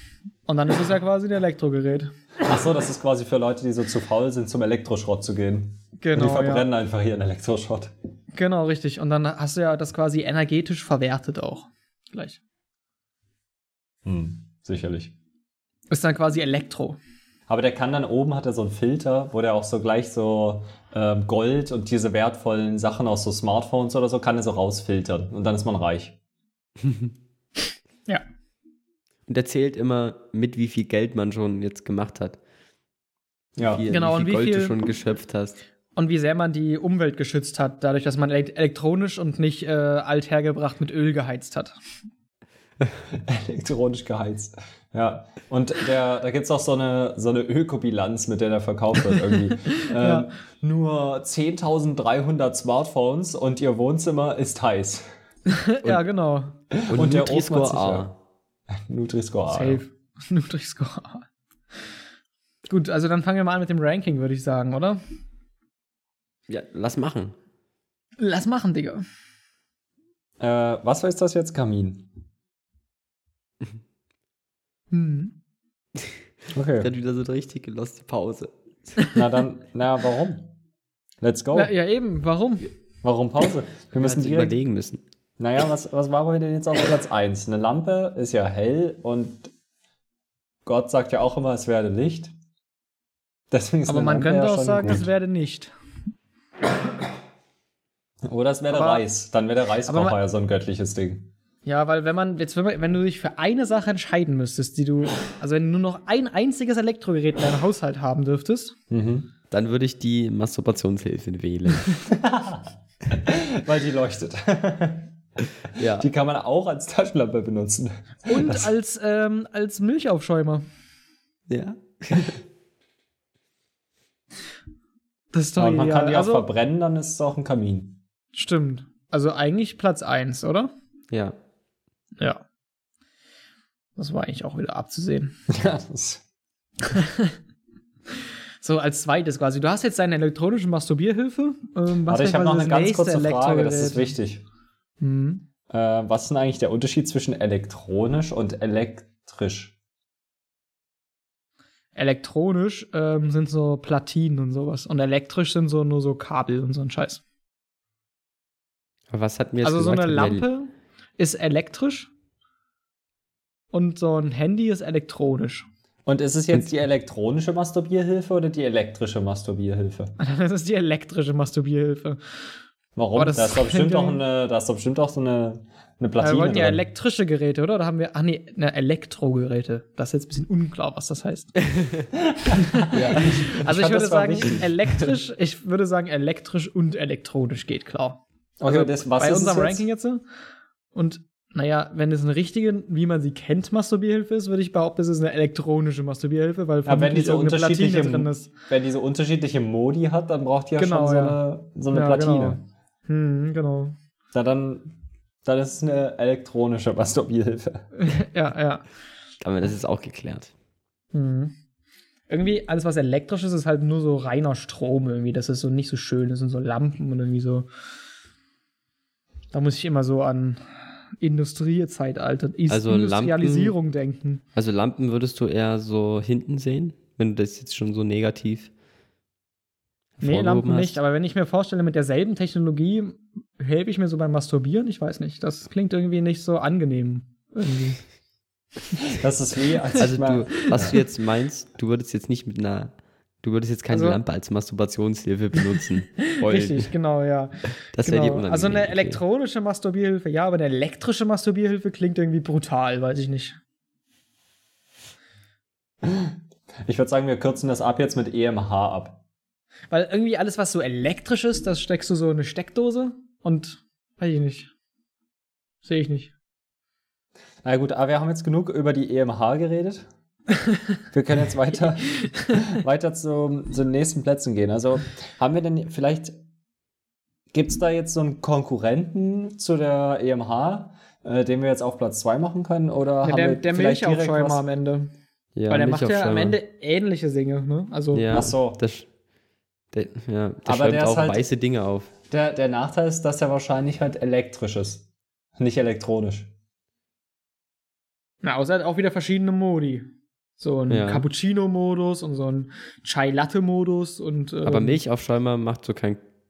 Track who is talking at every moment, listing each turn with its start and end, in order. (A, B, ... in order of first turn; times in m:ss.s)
0:00.5-0:02.1 A
0:02.4-0:07.9 B
0:06.0-0:06.7 A
0:08.4-0:12.4 A
0:14.0-0:15.1 B
0:15.9-0:17.0 A
0:17.5-0:26.2 B
0:29.3-0:32.4 C
0:33.6-0:33.8 B
0:33.6-0:35.6 C
0:33.9-0:34.8 A
0:36.0-0:41.8 A
0:43.1-0:55.0 B
0:49.8-0:50.3 A
0:55.5-0:56.6 A
0:56.7-0:58.1 B
0:56.9-0:58.1 C
0:58.7-0:59.8 B
0:59.5-1:01.3 A
1:02.7-1:05.0 A
1:06.5-1:07.4 C
1:08.2-1:09.0 A
1:10.4-1:12.1 B
1:14.9-1:15.4 A
1:16.5-1:16.9 B
1:16.8-1:19.0 C
1:19.2-1:20.5 B
1:21.2-1:21.7 B
1:21.5-1:22.7 A
1:23.0-1:24.6 B
1:24.0-1:25.0 C
1:25.4-1:29.5 B
1:30.7-1:32.3 B
1:33.5-1:35.1 B
1:33.9-1:35.7 A
1:38.2-1:41.3 B
1:38.7-1:39.0 A
1:39.8-1:40.2 A
1:41.6-1:48.8 A
1:48.9-1:49.3 B
1:49.5-1:52.0 C
1:52.1-1:55.1 B
1:55.8-1:56.1 C
1:55.8-1:58.7 B
1:58.2-2:00.6 A
2:01.5-2:02.4 C
2:05.3-2:06.5 A
2:05.6-2:08.0 B
2:08.3-2:10.7 A
2:11.1-2:11.4 C
2:14.0-2:15.4 A
2:15.5-2:16.2 B
2:16.9-2:17.3 A
2:18.6-2:24.2 A
2:22.1-2:24.4 B
2:25.0-2:25.4 A
2:25.7-2:29.7 B
2:32.0-2:37.2 A
2:39.1-2:40.5 C
2:39.6-2:42.1 A
2:43.7-2:45.7 A
2:46.1-2:50.1 B
2:50.2-2:52.4 A
2:53.0-2:56.8 B
2:53.2-2:54.2 A
2:56.2-3:01.5 A
3:01.7-3:02.1 C
3:02.4-3:04.7 B
3:02.5-3:10.2 A
3:02.9-3:03.4 C
3:04.5-3:05.1 C
3:08.6-3:09.9 B
3:10.9-3:18.5 A
3:16.8-3:22.6 B
3:20.8-3:23.9 A
3:24.3-3:24.9 B
3:25.4-3:27.9 B
3:28.0-3:28.9 A
3:29.4-3:30.5 C
3:31.1-3:31.5 A
3:32.3-3:37.7 A
3:39.5-3:40.7 A
3:41.2-3:44.4 A
3:42.7-3:43.8 C
3:44.6-3:48.7 C
3:50.2-3:51.0 C
3:50.2-3:58.0 A
3:59.2-4:01.0 B
4:00.0-4:06.9 C
4:03.9-4:04.2 A
4:06.2-4:13.6 A
4:07.9-4:09.2 C
4:16.0-4:19.2 B
4:19.9-4:24.7 A
4:25.8-4:26.3 A
4:27.6-4:30.1 B
4:31.1-4:36.4 B
4:32.1-4:32.6 A
4:37.5-4:44.6 B
4:43.2-4:45.1 A
4:45.6-4:46.6 C
4:45.7-4:48.3 A
4:48.1-4:49.1 C
4:48.3-4:48.8 B
4:49.9-4:52.1 C
4:50.7-4:51.5 B
4:52.3-4:55.0 B
4:55.6-4:56.5 B
4:58.4-5:00.1 A
5:00.6-5:05.0 A
5:00.9-5:01.3 C
5:04.7-5:06.2 C